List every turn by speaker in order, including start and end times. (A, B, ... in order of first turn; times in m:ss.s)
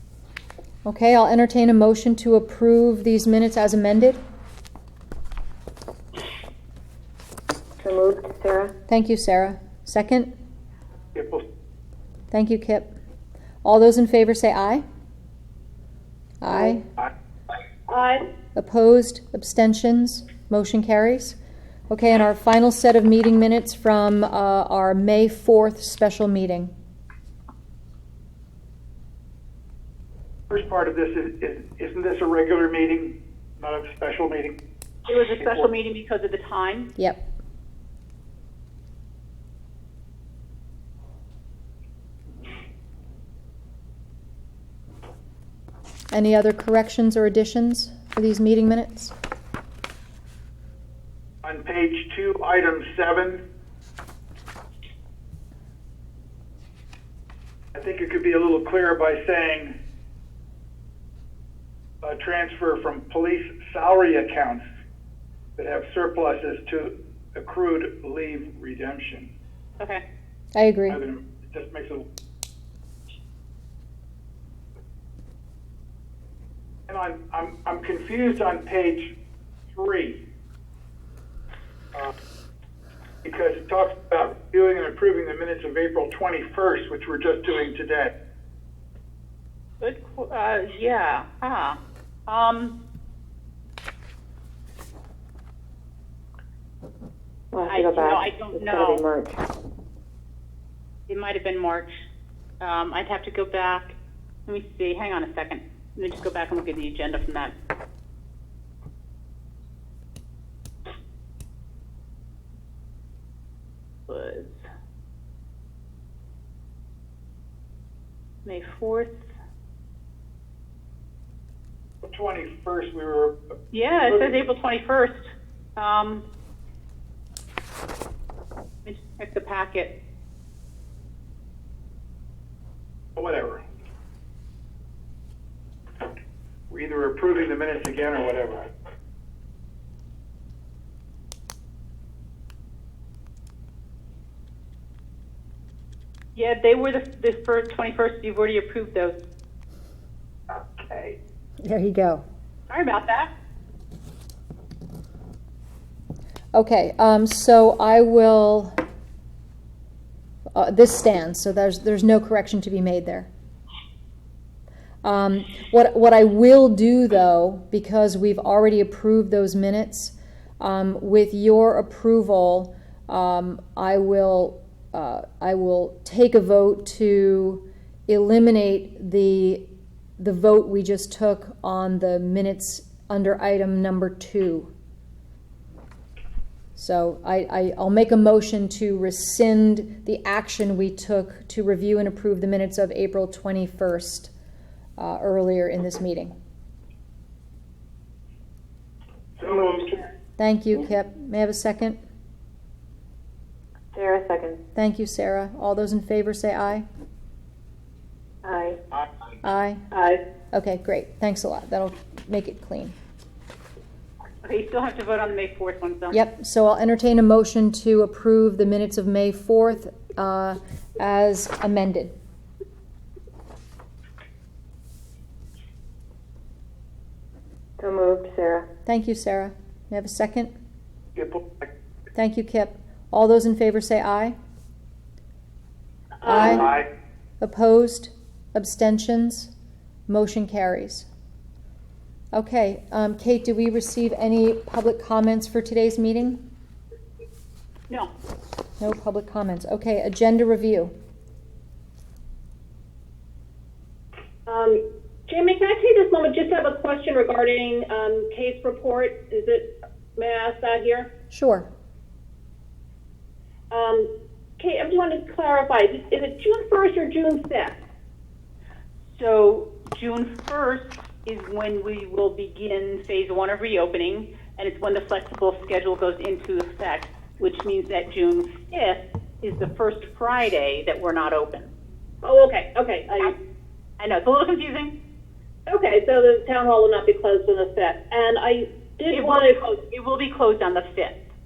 0:00.8-0:04.2 A
0:07.8-0:08.7 B
0:08.9-0:10.3 A
0:11.2-0:11.4 C
0:12.3-0:12.9 A
0:13.6-0:14.8 A
0:16.4-0:16.9 A
0:17.9-0:18.2 D
0:18.6-0:21.4 A
0:21.9-0:26.7 A
0:30.5-0:34.6 C
0:35.1-0:36.9 E
0:46.1-0:49.1 A
0:51.4-0:53.4 C
0:57.7-0:59.8 C
1:02.0-1:04.6 C
1:05.6-1:09.3 C
1:10.6-1:11.0 A
1:10.9-1:12.0 C
1:16.9-1:19.1 C
1:19.7-1:20.2 C
1:23.2-1:28.1 C
1:29.8-1:32.8 E
1:37.5-1:39.3 B
1:37.7-1:39.0 E
1:41.1-1:41.9 E
1:42.6-1:44.0 E
1:44.5-1:47.5 E
1:54.1-1:54.6 E
1:58.4-1:59.2 E
2:02.0-2:03.6 C
2:03.7-2:05.2 E
2:04.1-2:04.4 C
2:05.8-2:06.2 E
2:08.8-2:10.0 E
2:13.2-2:13.6 C
2:16.7-2:18.7 C
2:26.4-2:29.2 E
2:30.7-2:31.2 C
2:31.6-2:32.2 A
2:32.7-2:33.3 E
2:36.5-2:38.7 A
2:40.5-2:43.3 A
2:45.0-2:59.7 A
3:00.2-3:04.7 A
3:06.8-3:14.3 A
3:15.0-3:16.3 A
3:19.4-3:20.0 C
3:20.4-3:22.0 A
3:24.0-3:24.6 B
3:24.8-3:26.9 A
3:28.4-3:28.7 B
3:29.4-3:29.8 A
3:29.9-3:30.2 D
3:30.5-3:33.0 A
3:34.4-3:36.2 E
3:36.1-3:42.1 A
3:47.8-3:48.6 B
3:48.9-3:50.5 A
3:51.2-3:51.7 C
3:52.2-3:54.4 A
3:56.2-3:56.7 D
3:56.3-3:56.7 A
3:56.3-3:56.9 C
3:57.4-3:59.5 A
4:00.1-4:01.1 A
4:02.3-4:06.4 A
4:08.8-4:10.9 A
4:14.5-4:21.1 D
4:21.3-4:21.7 A
4:23.7-4:27.8 D
4:29.1-4:41.7 E
4:42.2-4:43.3 D
4:44.0-4:45.0 E
4:45.7-4:49.6 D
4:49.1-4:51.2 E